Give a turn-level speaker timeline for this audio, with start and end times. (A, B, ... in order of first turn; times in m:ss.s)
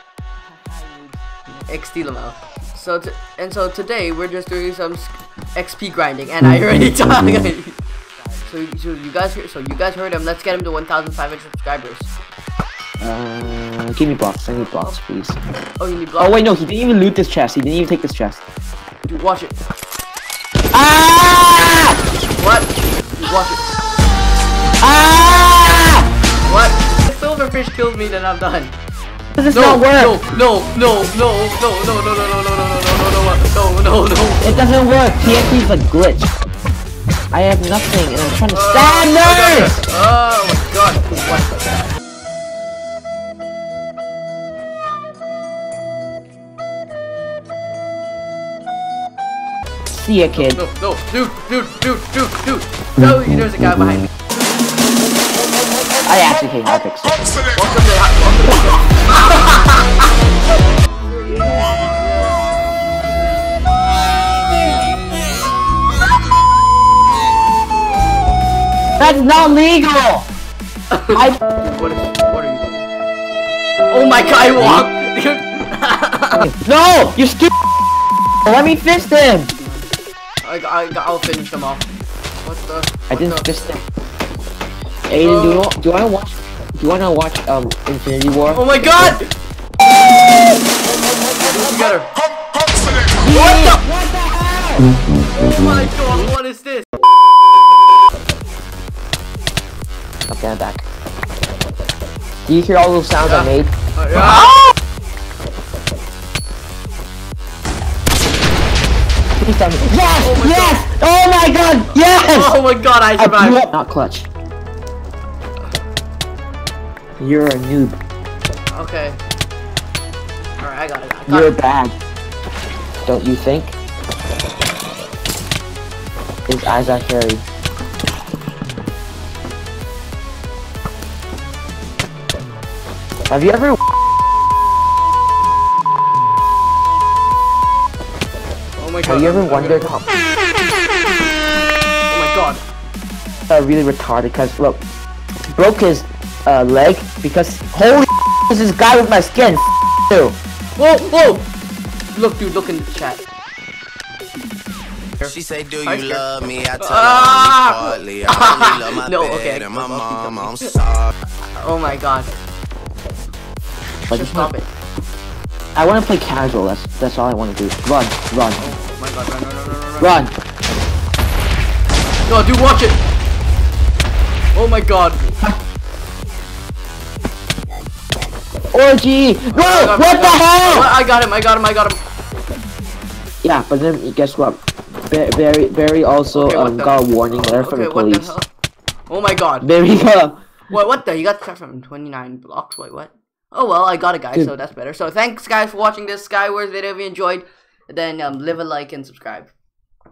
0:00.5-0:01.2 A
0:01.7-0:07.8 B
0:08.2-0:08.5 A
0:08.5-0:12.1 B
0:13.0-0:15.4 A
0:15.8-0:16.4 B
0:16.2-0:18.4 A
0:19.0-0:19.6 B
0:20.7-0:22.0 A
0:22.4-0:23.7 B
0:24.8-0:26.1 A
0:26.5-0:28.8 B
0:29.4-0:30.2 A
0:29.5-0:34.6 B
0:34.4-0:36.3 A
0:37.3-0:39.8 A
0:38.5-0:41.9 B
0:49.9-0:50.6 A
0:50.4-0:54.1 B
0:56.0-0:57.2 A
0:57.5-1:00.0 B
1:09.0-1:10.3 A
1:10.9-1:12.8 B
1:11.1-1:11.4 A
1:13.9-1:16.5 B
1:14.6-1:14.9 A
1:16.4-1:17.5 A
1:18.4-1:19.5 A
1:19.6-1:19.8 B
1:20.4-1:21.9 B
1:22.4-1:23.5 B
1:23.1-1:23.8 A
1:25.1-1:28.7 A
1:25.1-1:25.7 B
1:28.5-1:29.3 B
1:31.4-1:32.1 B
1:33.1-1:34.9 A
1:33.3-1:33.8 B
1:35.3-1:36.9 B
1:40.3-1:40.8 A
1:42.5-1:44.7 A
1:43.2-1:44.6 B
1:49.4-1:52.6 A
1:50.2-1:50.8 B
1:52.1-1:53.6 B
1:53.2-1:54.3 A
1:57.2-1:58.0 A
1:58.7-1:59.2 B
2:00.6-2:01.5 B
2:01.3-2:01.9 A
2:03.0-2:03.8 A
2:06.5-2:07.4 A
2:13.3-2:13.8 A
2:18.8-2:19.8 B
2:19.1-2:20.1 A
2:22.1-2:22.6 B
2:23.5-2:24.8 A
2:25.5-2:30.4 A
2:30.8-2:31.5 B
2:32.1-2:33.2 B
2:35.2-2:36.2 B
2:35.2-2:41.1 C
2:36.8-2:40.7 B
2:41.6-2:42.3 B
2:44.1-2:44.7 B
2:44.1-2:44.5 A
2:45.8-2:48.6 A
2:48.6-2:50.2 B
2:50.0-2:50.3 A
2:52.3-2:53.0 B
2:54.5-2:55.4 B
2:58.7-3:00.9 A
2:59.5-3:02.0 B
3:03.4-3:08.3 A
3:06.3-3:08.5 B
3:09.1-3:09.7 B
3:09.6-3:10.4 A
3:10.7-3:19.5 B